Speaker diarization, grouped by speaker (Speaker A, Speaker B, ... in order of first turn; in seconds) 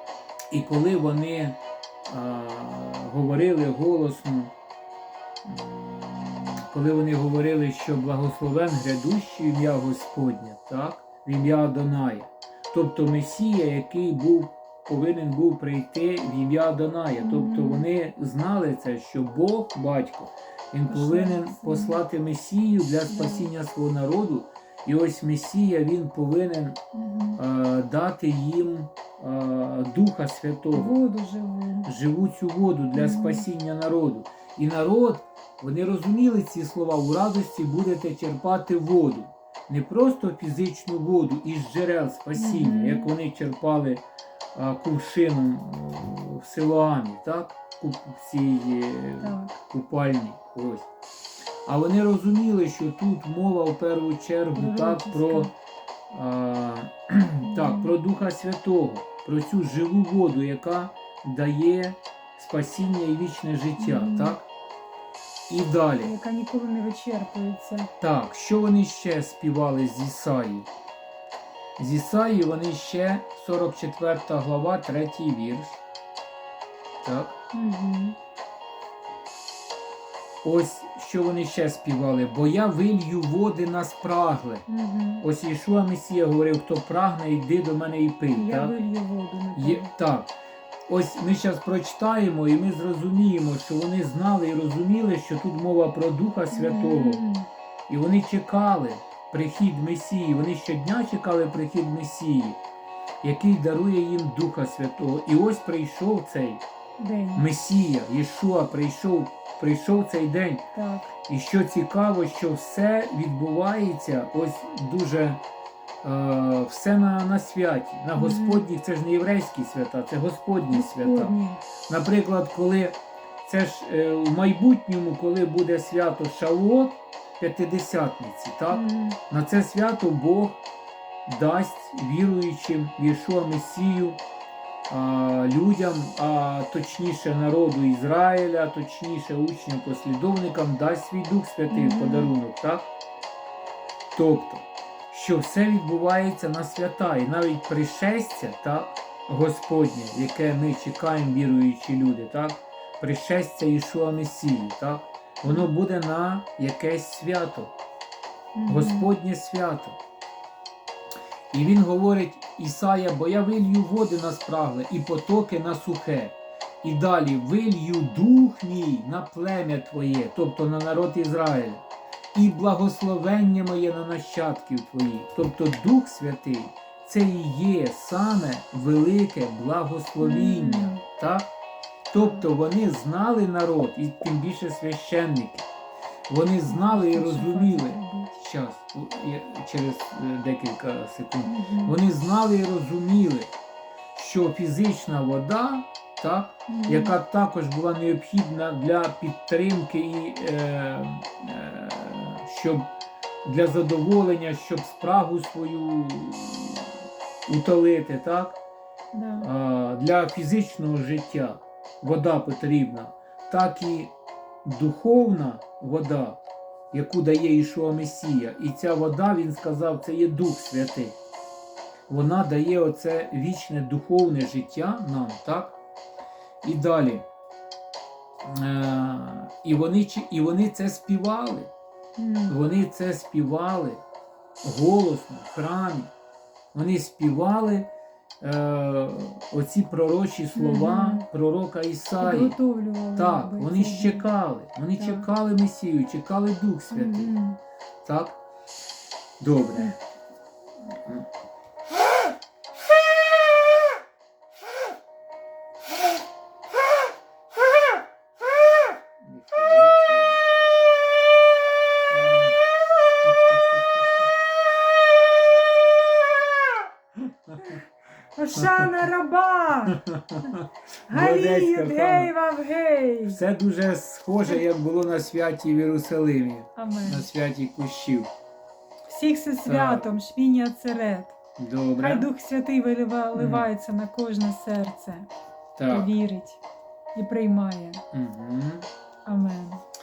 Speaker A: 0.5-4.5, 5.5-26.8, 27.4-31.0, 31.9-50.9, 51.7-55.5, 56.1-64.5, 65.5-66.1, 68.0-70.7, 71.8-75.8, 77.0-77.4, 80.4-84.7, 85.2-88.7, 89.6-90.3, 90.9-97.2, 97.9-102.6, 103.2-106.6, 107.3-110.7, 111.3-115.4, 116.0-121.4, 121.9-130.6, 131.3-134.2, 134.9-142.9, 144.1-157.7, 158.7-160.0, 161.5-181.5, 182.1-185.7, 186.3-193.5, 194.2-202.9, 203.4-206.9, 207.5-208.6, 209.4-214.1, 214.7-221.2, 222.1-225.8, 226.6-227.3, 228.5-231.7, 232.5-234.0, 234.6-236.1, 236.7-242.6, 243.2-247.3, 248.0-248.4, 249.4-250.0, 259.2-260.4, 262.1-262.6, 263.2-263.6, 268.6-268.9, 270.0-272.3, 273.2-278.3, 279.6-280.1, 281.6-282.3, 283.3-283.7, 285.8-286.1, 288.1-288.9
Speaker B: 17.2-17.9, 20.9-22.0, 23.1-23.5, 26.9-27.4, 30.7-31.9, 33.0-33.5, 42.3-43.1, 49.2-49.6, 54.5-55.5, 57.4-57.9, 63.8-64.4, 66.0-67.9, 77.5-78.2, 84.7-85.2, 88.3-89.9, 96.5-97.5, 107.0-107.5, 110.8-111.1, 118.2-118.7, 120.7-121.6, 128.7-129.2, 141.7-142.3, 158.6-159.1, 180.2-181.0, 186.7-188.4, 191.4-192.0, 196.7-197.2, 209.1-209.5, 232.2-232.5, 240.6-241.2, 242.2-244.3, 245.0-245.3, 246.9-247.6, 268.4-270.5, 271.1-273.4, 276.8-277.3, 279.1-281.4, 282.0-285.3, 285.9-286.6, 287.1-288.0, 289.3-289.8